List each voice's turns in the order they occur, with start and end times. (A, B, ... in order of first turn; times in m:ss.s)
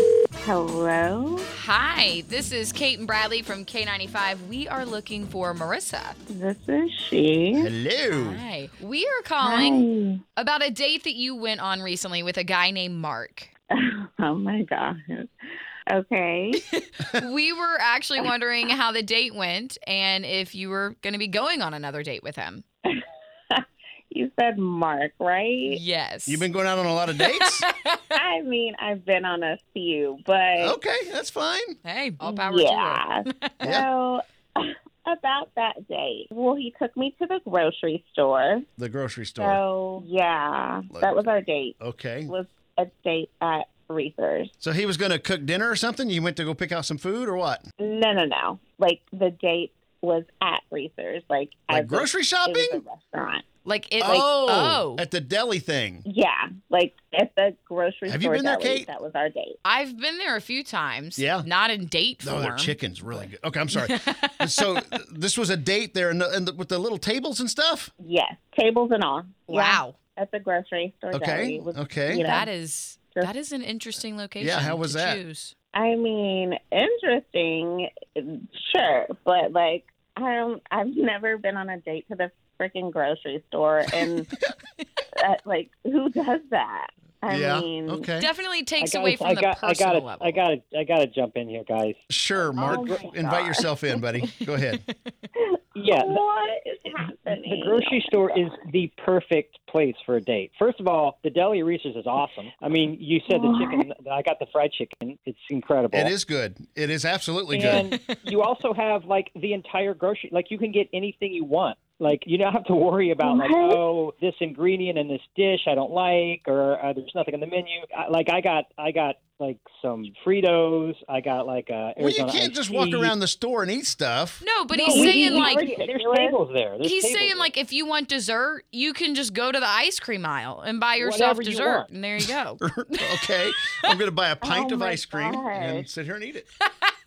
0:00.4-0:01.5 A
0:01.5-0:06.2 B
0:06.3-0:07.7 A
0:07.6-0:08.4 C
0:08.1-0:13.5 B
0:09.4-0:10.2 A
0:13.8-0:15.3 A
0:15.9-0:16.6 A
0:16.6-0:22.6 B
0:23.5-0:25.8 A
0:25.7-0:26.5 B
0:26.3-0:27.7 C
0:27.2-0:28.0 B
0:28.2-0:30.8 A
0:30.6-0:31.8 C
0:31.8-0:33.5 B
0:32.2-0:38.6 A
0:33.6-0:33.9 C
0:38.8-0:39.6 C
0:39.4-0:41.8 A
0:40.9-0:42.3 C
0:42.3-0:44.5 A
0:44.6-0:47.6 C
0:47.8-0:53.4 A
0:51.7-0:52.8 C
0:53.6-0:55.0 B
0:54.0-0:56.0 C
0:56.1-0:59.6 A
0:58.1-0:58.9 C
0:59.6-1:04.7 B
1:01.2-1:01.5 C
1:02.2-1:07.9 C
1:08.0-1:12.5 A
1:09.5-1:10.0 B
1:11.1-1:12.3 C
1:12.2-1:15.5 B
1:14.4-1:15.2 C
1:15.7-1:24.3 A
1:25.2-1:28.1 A
1:27.3-1:28.3 C
1:28.2-1:30.4 B
1:28.8-1:33.0 D
1:32.1-1:34.8 C
1:32.6-1:33.6 A
1:34.4-1:34.9 B
1:35.4-1:38.4 A
1:35.8-1:36.2 D
1:37.3-1:46.1 D
1:43.3-1:43.9 A
1:45.9-1:47.9 C
1:47.5-2:03.1 D
1:47.6-1:48.2 B
1:53.2-1:53.8 A
2:02.0-2:04.4 C
2:04.4-2:05.7 B
2:04.7-2:07.5 D
2:04.9-2:06.4 A
2:06.8-2:13.3 B
2:11.0-2:11.9 D
2:12.2-2:16.5 C
2:14.4-2:15.9 A